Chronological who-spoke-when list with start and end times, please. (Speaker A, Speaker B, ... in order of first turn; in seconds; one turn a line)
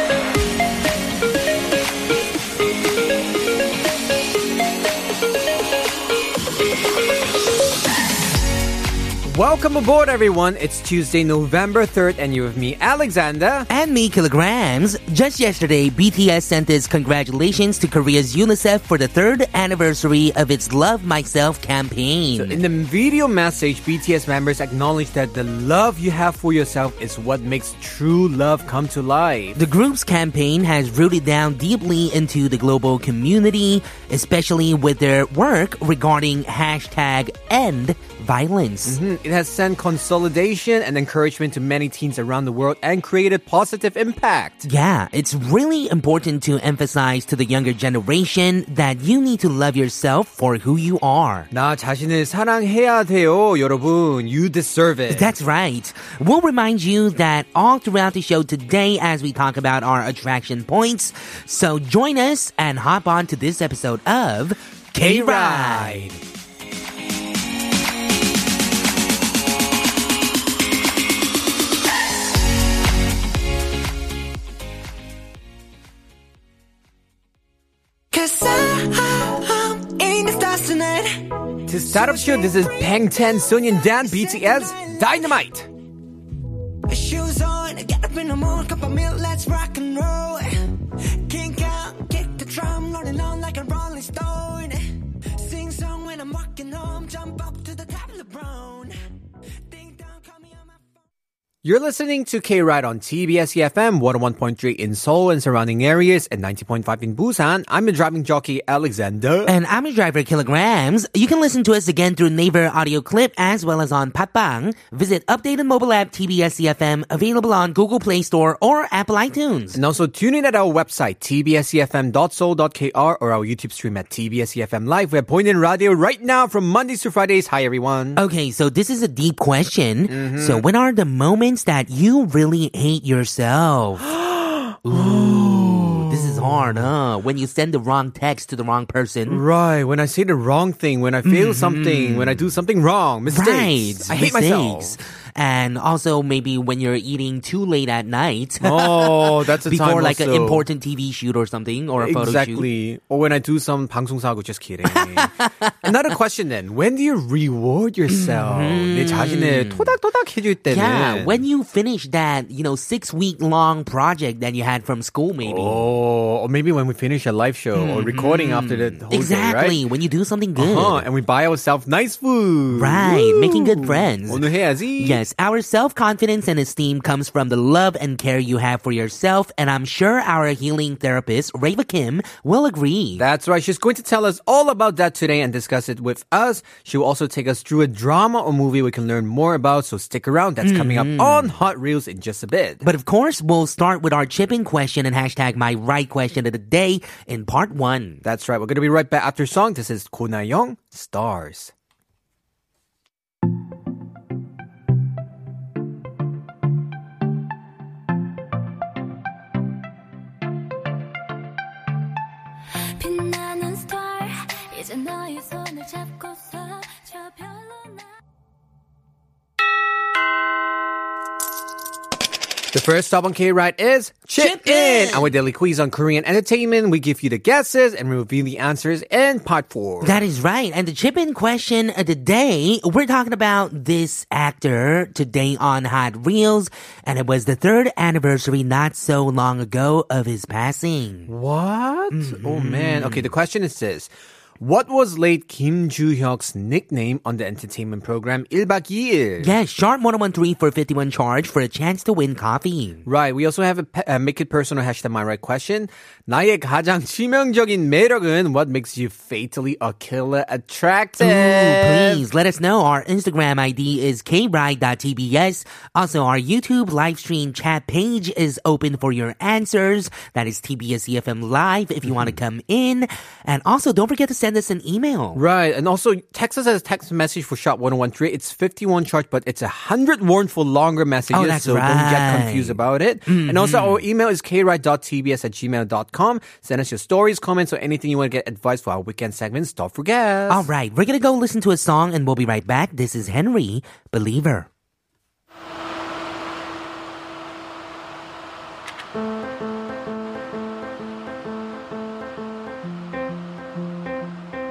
Speaker A: 9.2-13.7
Speaker B: 13.7-22.6
Speaker A: 22.3-29.6
Speaker B: 29.6-39.0
Speaker A: 38.8-44.7
Speaker B: 44.6-51.5
Speaker A: 51.5-55.3
Speaker B: 55.1-66.1
Speaker A: 65.0-66.2
Speaker C: 78.1-85.3
Speaker A: 81.7-85.7
Speaker C: 86.9-90.7
Speaker C: 91.2-98.9
Speaker C: 99.7-100.9
Speaker A: 101.6-109.6
Speaker B: 109.5-119.8
Speaker A: 119.7-128.2
Speaker B: 128.2-134.1
Speaker A: 130.1-130.7
Speaker A: 134.1-136.9
Speaker B: 134.8-139.4
Speaker A: 139.3-145.0
Speaker B: 141.2-142.4
Speaker B: 143.3-152.7
Speaker A: 148.6-150.6
Speaker A: 152.0-155.3
Speaker B: 154.9-155.7
Speaker A: 155.8-161.4
Speaker B: 158.1-159.9
Speaker B: 160.7-165.8
Speaker A: 165.4-169.8
Speaker B: 167.7-171.0
Speaker A: 170.6-175.2
Speaker B: 172.7-174.4
Speaker B: 175.0-183.2
Speaker A: 183.2-192.8
Speaker B: 190.6-191.6
Speaker B: 192.8-198.2
Speaker A: 198.2-201.7
Speaker D: 213.0-218.1
Speaker A: 222.7-230.2
Speaker B: 224.3-225.3
Speaker B: 230.0-241.3
Speaker A: 241.3-244.1
Speaker B: 242.1-243.3
Speaker A: 244.6-249.5
Speaker B: 249.4-253.0
Speaker A: 253.1-262.2
Speaker B: 261.2-275.4
Speaker A: 272.1-272.4
Speaker A: 275.3-290.7
Speaker B: 281.3-284.0
Speaker B: 290.5-294.7